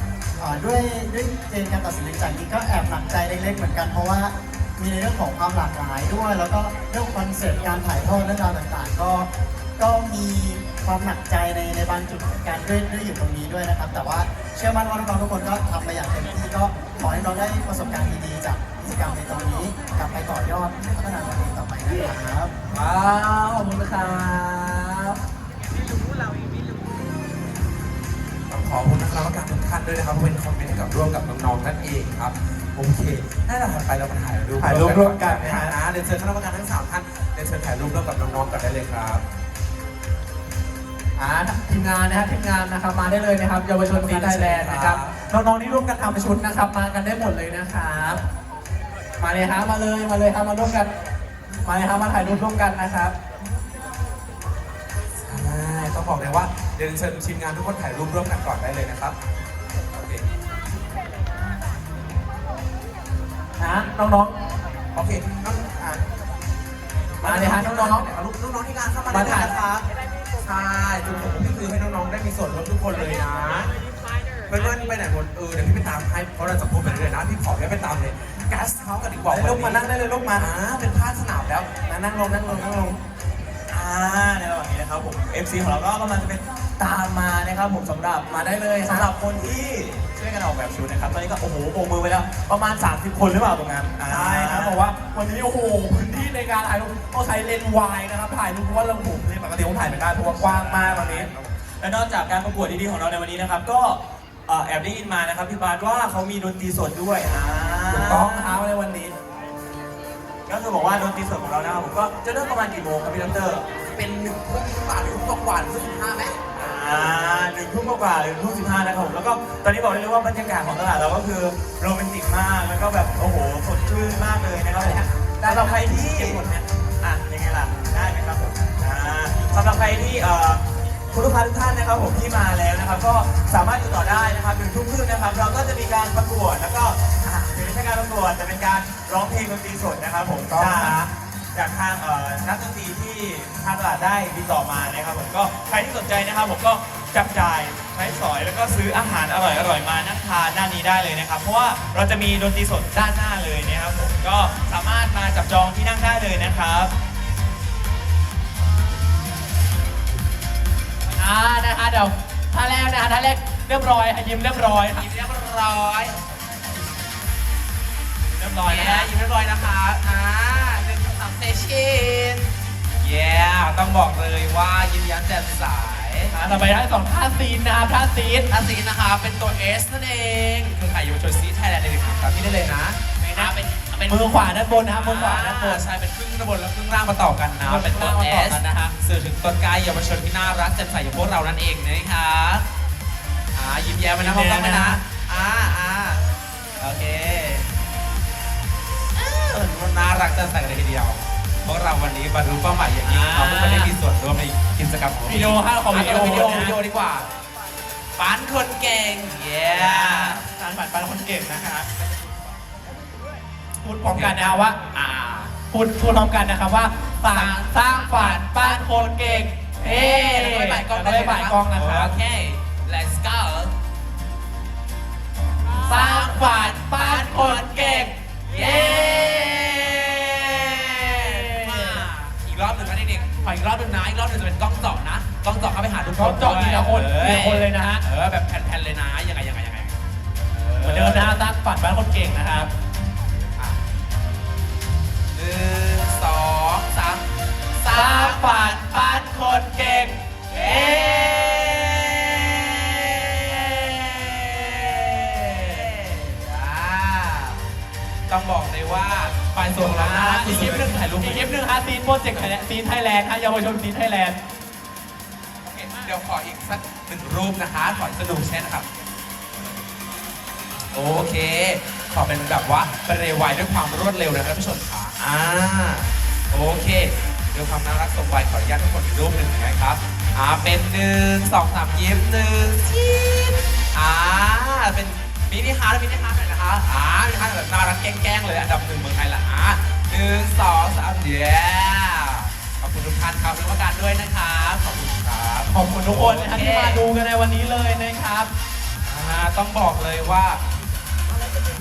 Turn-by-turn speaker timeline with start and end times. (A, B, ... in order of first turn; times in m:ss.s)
0:00.4-0:22.5 A
0:22.7-0:25.2 B
0:28.5-0:39.2 C
0:34.6-0:35.8 B
0:41.2-0:48.2 B
0:43.9-0:45.2 C
0:49.2-0:50.9 B
0:51.6-0:53.1 B
0:55.2-0:59.2 C
0:59.9-1:00.2 C
1:03.6-1:04.4 B
1:04.9-1:06.0 C
1:07.2-1:09.8 C
1:07.2-1:08.1 B
1:09.1-1:09.5 B
1:10.4-1:13.7 C
1:14.5-1:19.8 C
1:19.3-1:20.5 B
1:20.4-1:21.7 C
1:21.9-1:23.0 B
1:23.7-1:34.8 D
1:28.3-1:29.1 B
1:34.1-1:41.3 B
1:40.2-1:41.5 C
1:40.8-1:41.3 D
1:41.8-1:48.5 D
1:47.9-1:49.2 B
1:50.5-1:53.6 D
1:53.8-1:56.4 C
1:56.6-2:21.0 D
2:04.8-2:06.6 B
2:20.5-2:21.1 B
2:21.5-2:36.9 D
2:41.2-2:45.0 B
2:44.9-2:46.2 C
2:48.4-2:49.1 B
2:48.6-2:56.4 C
2:56.3-2:58.5 B
2:58.5-3:04.2 C
3:03.2-3:05.8 B
3:04.9-3:12.6 C
3:07.6-3:08.9 B
3:13.5-3:16.2 C
3:14.2-3:15.0 B
3:16.8-3:17.7 C
3:19.2-3:27.3 C
3:23.0-3:23.9 B
3:25.3-3:26.8 B
3:28.2-3:30.4 C
3:29.7-3:31.9 B
3:33.8-3:34.8 B
3:34.1-3:35.5 C
3:35.6-3:42.2 B
3:37.3-3:43.7 C
3:45.7-4:00.0 C
3:45.8-3:49.7 B
3:51.2-3:52.1 B
3:56.2-3:58.0 B
4:00.5-4:01.4 C
4:00.8-4:02.7 B
4:05.3-4:10.0 C
4:07.9-4:10.2 B
4:10.5-4:17.6 C
4:18.3-4:21.6 C
4:19.8-4:24.4 B
4:25.7-4:28.9 C
4:30.9-4:57.0 C
4:55.7-4:58.5 B
4:59.0-5:00.6 C